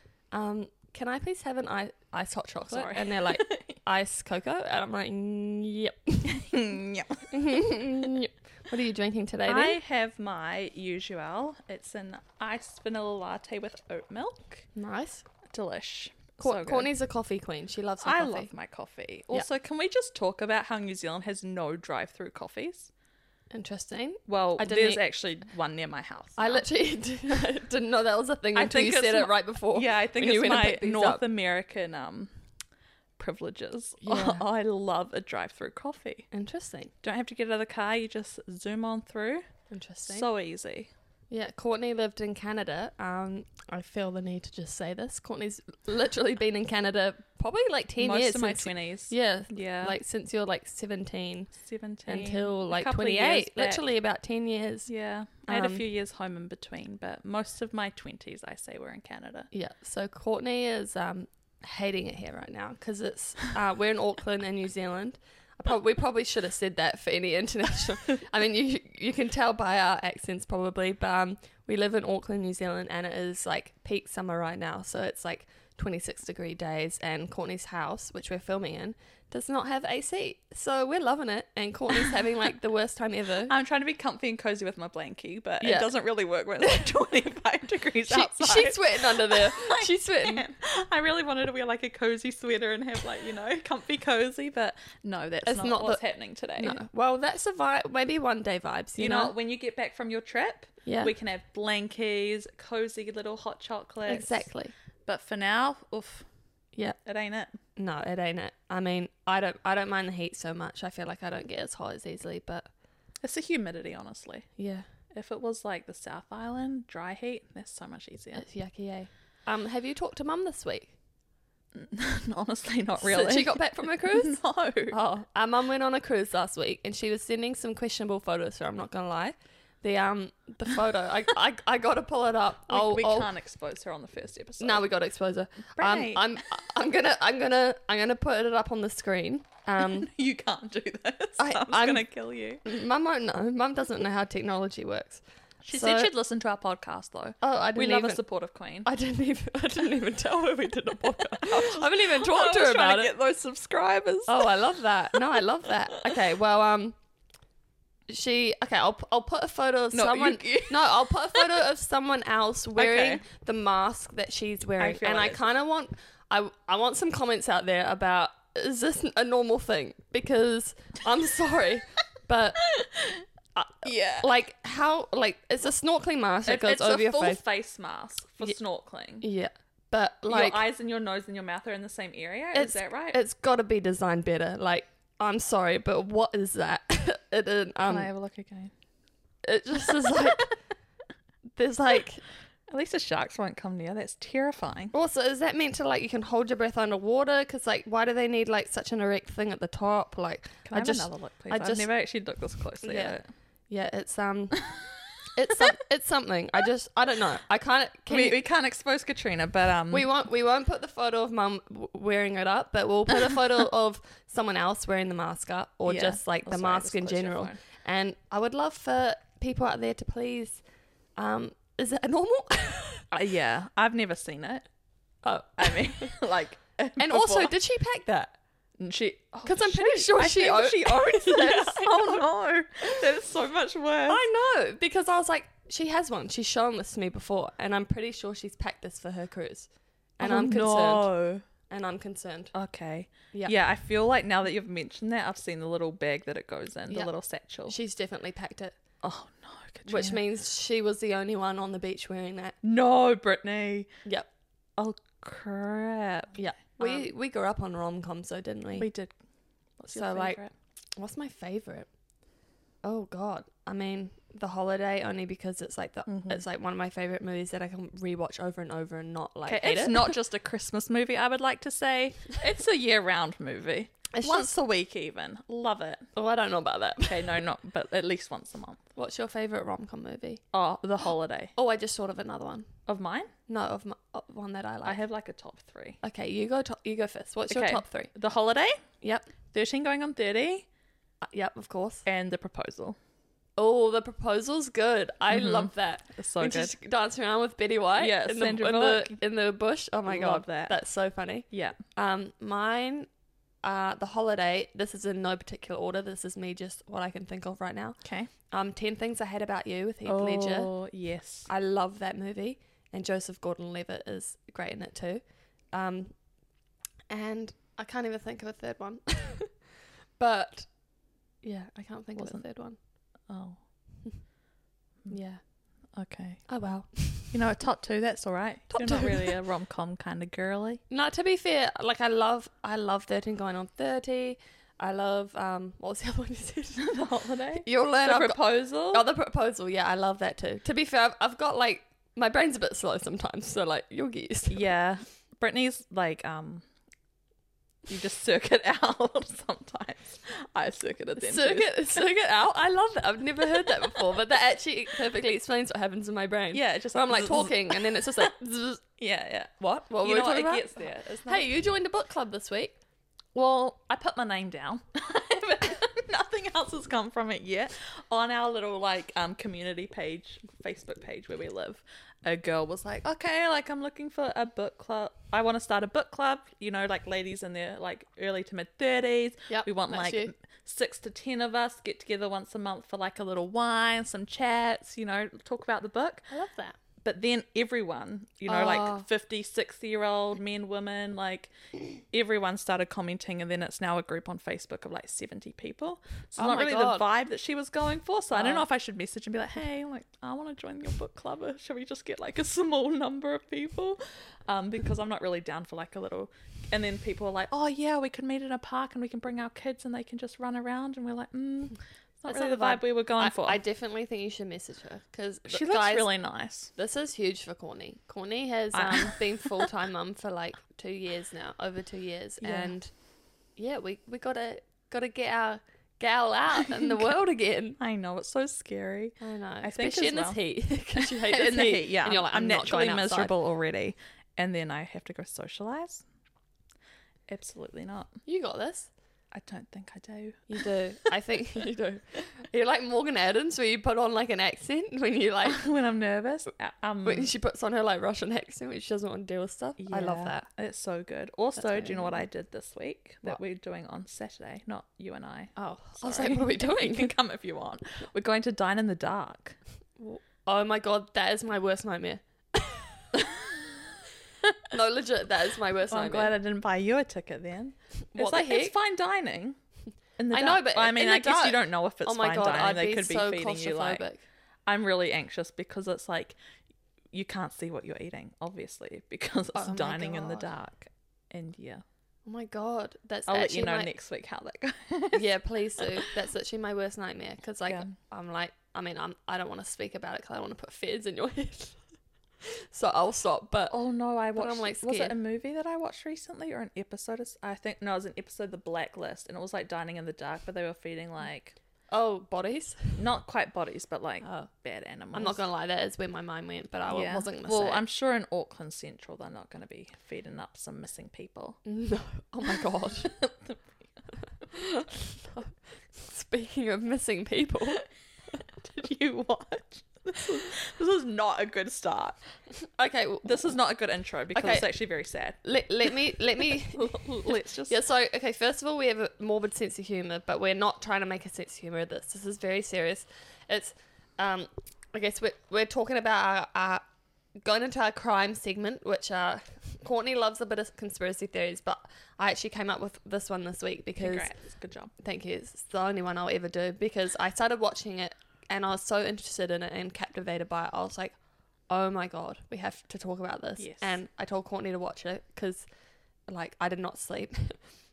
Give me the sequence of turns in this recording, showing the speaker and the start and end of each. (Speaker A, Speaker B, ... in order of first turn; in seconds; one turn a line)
Speaker A: 0.3-6.5
Speaker B: 2.7-3.7
Speaker B: 6.3-7.3
Speaker A: 7.3-9.8
Speaker B: 9.5-14.7
Speaker A: 14.8-15.3
Speaker B: 15.4-16.9
Speaker A: 16.4-18.5
Speaker B: 18.0-22.9
Speaker A: 23.5-25.0
Speaker B: 24.3-26.6
Speaker A: 26.4-31.2
Speaker B: 28.6-32.3
Speaker B: 33.2-36.3
Speaker A: 34.0-34.5
Speaker A: 36.3-36.9
Speaker B: 37.0-39.5
Speaker A: 39.7-40.3
Speaker B: 40.1-40.9
Speaker A: 41.3-51.5
Speaker B: 48.0-50.0
Speaker B: 51.6-53.8
Speaker A: 52.1-54.9
Speaker B: 54.9-59.5
Speaker A: 55.5-55.8
Speaker A: 59.5-83.5
Speaker B: 83.5-96.8
Speaker A: 85.6-85.9
Speaker A: 88.1-90.5
Speaker A: 95.4-96.0
Speaker A: 96.6-99.3
Speaker B: 99.0-104.5
Speaker A: 100.8-101.1
Speaker A: 104.0-104.7
Speaker B: 105.1-106.3
Speaker B: 107.0-107.6
Speaker A: 107.8-112.7
Speaker B: 113.2-114.5
Speaker A: 114.6-114.8
Speaker B: 115.1-118.5
Speaker A: 118.4-120.9
Speaker B: 121.7-125.0
Speaker A: 123.0-133.3
Speaker B: 132.7-134.8
Speaker A: 134.6-140.1
Speaker B: 135.8-136.8
Speaker B: 139.8-142.6
Speaker A: 141.4-142.1
Speaker A: 142.6-145.2
Speaker B: 145.6-148.9
Speaker A: 145.7-146.1
Speaker A: 147.4-148.2
Speaker A: 148.8-153.2
Speaker B: 151.2-154.6
Speaker A: 154.3-157.0
Speaker A: 158.1-172.7
Speaker B: 159.9-161.6
Speaker B: 162.8-163.2
Speaker B: 164.8-165.4
Speaker B: 172.7-173.2
Speaker A: 173.6-177.4
Speaker B: 173.8-174.3
Speaker B: 176.4-179.3
Speaker A: 179.2-180.6
Speaker B: 180.3-183.2
Speaker A: 182.5-188.1
Speaker B: 187.8-188.7
Speaker A: 189.4-190.5
Speaker B: 189.9-190.2
Speaker A: 191.6-192.2
Speaker B: 192.7-194.9
Speaker A: 194.9-201.9
Speaker B: 200.7-203.3
Speaker A: 202.8-203.2
Speaker A: 203.7-204.7
Speaker A: 205.3-208.4
Speaker B: 208.1-210.1
Speaker A: 209.9-220.6
Speaker B: 215.9-217.6
Speaker A: 221.2-223.1
Speaker B: 223.1-224.7
Speaker A: 225.2-226.2
Speaker B: 225.6-227.6
Speaker A: 227.0-228.4
Speaker B: 228.8-234.2
Speaker A: 229.4-232.2
Speaker A: 234.1-241.1
Speaker B: 240.2-241.4
Speaker A: 241.7-242.5
Speaker B: 242.5-247.8
Speaker A: 247.7-248.8
Speaker B: 249.0-250.2
Speaker A: 249.9-252.6
Speaker B: 252.6-253.9
Speaker B: 254.8-257.1
Speaker A: 256.4-258.9
Speaker B: 258.8-259.1
Speaker B: 259.8-260.5
Speaker A: 259.9-260.4
Speaker A: 261.0-261.9
Speaker A: 262.8-270.2
Speaker B: 266.1-266.4
Speaker B: 269.5-276.0
Speaker A: 274.1-274.5
Speaker A: 276.1-277.3
Speaker B: 277.1-278.8
Speaker A: 279.0-280.4
Speaker B: 280.5-281.5
Speaker A: 281.6-282.7
Speaker B: 282.9-283.3
Speaker A: 283.5-285.0
Speaker B: 284.9-286.0
Speaker A: 286.0-288.1
Speaker B: 287.5-288.8
Speaker A: 289.0-289.3
Speaker B: 289.5-290.7
Speaker A: 291.2-292.1
Speaker B: 292.1-293.0
Speaker A: 293.6-303.1
Speaker B: 295.3-296.7
Speaker B: 298.0-299.2
Speaker B: 300.1-300.8
Speaker B: 301.5-301.8
Speaker A: 303.6-308.0
Speaker B: 308.0-308.3
Speaker A: 308.5-310.7
Speaker B: 310.1-311.5
Speaker A: 311.5-316.2
Speaker A: 317.1-319.7
Speaker A: 320.2-320.7
Speaker A: 321.4-322.8
Speaker B: 322.2-322.4
Speaker B: 323.3-323.6
Speaker A: 325.1-325.4
Speaker B: 325.9-326.5
Speaker A: 326.5-327.4
Speaker B: 327.2-330.8
Speaker A: 328.7-329.4
Speaker A: 330.9-337.0
Speaker B: 336.8-339.1
Speaker A: 337.6-344.6
Speaker B: 344.5-346.6
Speaker B: 347.9-352.0
Speaker A: 351.2-358.8
Speaker B: 356.5-358.3
Speaker B: 359.0-361.5
Speaker A: 359.7-362.8
Speaker B: 363.4-386.3
Speaker A: 379.5-380.3
Speaker A: 386.3-386.8
Speaker B: 387.0-413.6
Speaker A: 388.5-389.1
Speaker A: 396.4-397.0
Speaker A: 398.3-398.6
Speaker A: 412.3-416.1
Speaker B: 415.5-416.7
Speaker A: 416.8-422.9
Speaker B: 418.7-419.7
Speaker B: 422.4-422.7
Speaker A: 423.6-427.8
Speaker B: 426.8-427.1
Speaker B: 427.8-430.4
Speaker A: 429.2-433.3
Speaker B: 431.0-436.1
Speaker B: 437.3-438.1
Speaker A: 438.3-438.9
Speaker B: 439.3-441.1
Speaker A: 440.5-445.6
Speaker B: 445.4-447.3
Speaker A: 447.1-450.5
Speaker B: 449.8-459.6
Speaker A: 451.6-452.2
Speaker A: 455.6-457.1
Speaker A: 460.0-463.2
Speaker A: 464.7-466.3
Speaker B: 465.9-469.6
Speaker A: 468.1-468.7
Speaker B: 470.2-474.0
Speaker A: 470.3-474.2
Speaker B: 474.7-476.4
Speaker B: 477.1-481.8
Speaker A: 479.6-480.5
Speaker A: 482.3-483.9
Speaker B: 483.3-486.1
Speaker A: 485.1-491.8
Speaker A: 492.4-493.8
Speaker B: 493.7-501.6
Speaker A: 494.4-495.1
Speaker A: 501.9-503.0
Speaker B: 503.0-505.4
Speaker A: 504.2-504.5
Speaker A: 505.1-507.8
Speaker B: 506.9-511.6
Speaker A: 511.6-513.1
Speaker B: 512.5-513.6
Speaker A: 514.5-517.9
Speaker B: 518.6-522.2
Speaker A: 522.8-523.5
Speaker B: 523.2-527.8
Speaker A: 524.3-524.7
Speaker A: 525.4-536.8
Speaker A: 537.4-544.3
Speaker B: 544.0-544.9
Speaker A: 545.0-551.2
Speaker A: 551.7-555.6
Speaker B: 553.6-554.0
Speaker A: 556.3-557.6